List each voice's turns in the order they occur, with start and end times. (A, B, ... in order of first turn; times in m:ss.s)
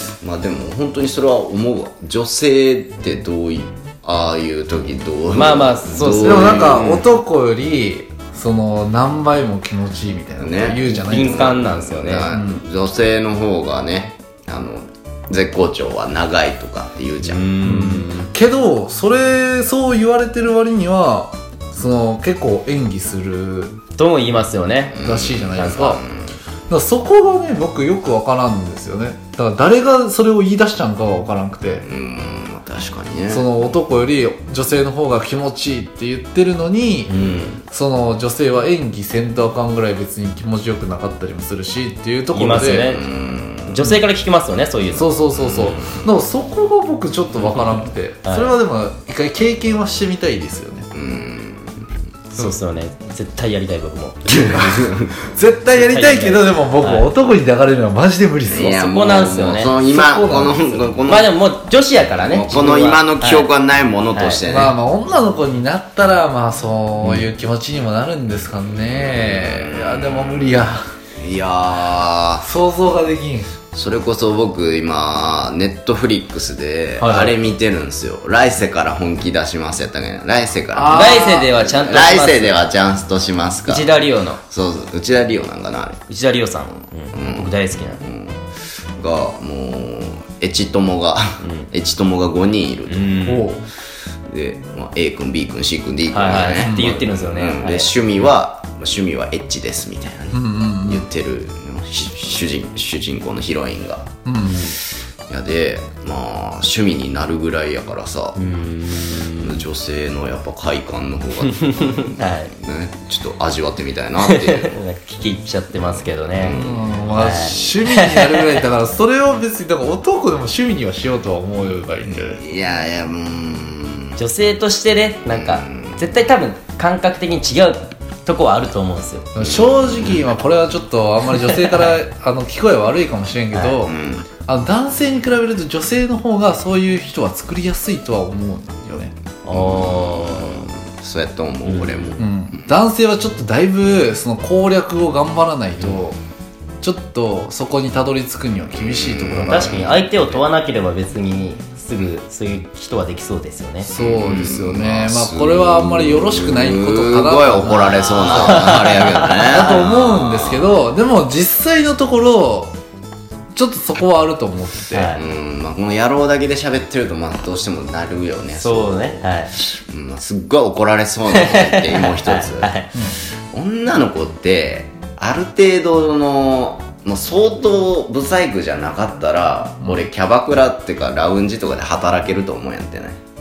0:00.2-0:07.1 A
0:05.3-0:07.0 B
0:06.2-0:11.5 C
0:10.4-0:18.3 A
0:10.9-0:12.3 B
0:12.2-0:12.6 C
0:17.5-0:23.8 C
0:24.0-0:25.0 B
0:25.0-0:26.0 C
0:25.0-0:26.4 A
0:25.5-0:25.9 B
0:26.7-0:31.9 C
0:31.8-0:33.7 A
0:33.3-0:37.2 C
0:37.1-0:37.5 B
0:37.1-0:37.6 A
0:37.7-0:43.0 C
0:42.3-0:43.1 B
0:42.5-0:43.8 A
0:43.7-0:45.1 B
0:45.0-0:50.9 C
0:45.3-0:46.0 A
0:48.2-0:48.6 B
0:50.9-0:51.9 A
0:52.3-0:54.4 B
0:54.3-0:55.1 A
0:54.4-0:58.7 C
0:55.7-0:57.1 B
0:58.5-1:01.4 A
0:58.6-0:59.8 B
0:59.7-1:00.7 C
1:01.0-1:03.5 B
1:02.2-1:04.8 A
1:04.1-1:04.4 B
1:04.4-1:10.8 C
1:08.9-1:10.6 A
1:11.2-1:12.5 A
1:12.4-1:13.5 C
1:13.7-1:26.0 A
1:17.0-1:17.3 B
1:20.7-1:21.5 C
1:20.9-1:22.6 B
1:23.7-1:24.4 B
1:26.1-1:28.0 B
1:27.1-1:28.4 A
1:29.0-1:33.2 A
1:31.4-1:31.7 B
1:32.9-1:33.6 B
1:33.3-1:33.6 C
1:34.3-1:44.8 A
1:36.1-1:37.9 B
1:36.4-1:37.1 C
1:40.3-1:41.1 C
1:44.3-1:44.6 C
1:44.4-1:44.8 B
1:45.3-1:48.4 A
1:48.4-1:49.6 B
1:49.4-1:54.7 A
1:51.8-1:52.5 B
1:54.2-1:56.6 B
1:56.4-1:57.6 A
1:56.5-2:02.4 C
1:57.1-1:58.5 B
2:02.0-2:04.2 A
2:04.2-2:09.3 B
2:05.3-2:06.1 A
2:09.4-2:19.1 C
2:09.4-2:10.3 A
2:13.8-2:14.3 A
2:19.4-2:20.7 B
2:19.5-2:22.7 A
2:21.6-2:22.2 B
2:22.2-2:26.2 C
2:26.8-2:30.0 C
2:28.7-2:30.4 A
2:29.5-2:33.9 B
2:33.8-2:42.7 C
2:34.0-2:40.8 A
2:37.8-2:39.3 B
2:43.6-2:45.2 C
2:44.9-2:45.2 B
2:45.1-2:52.7 A
2:48.6-2:49.5 B
2:51.3-2:52.9 B
2:53.5-3:03.2 A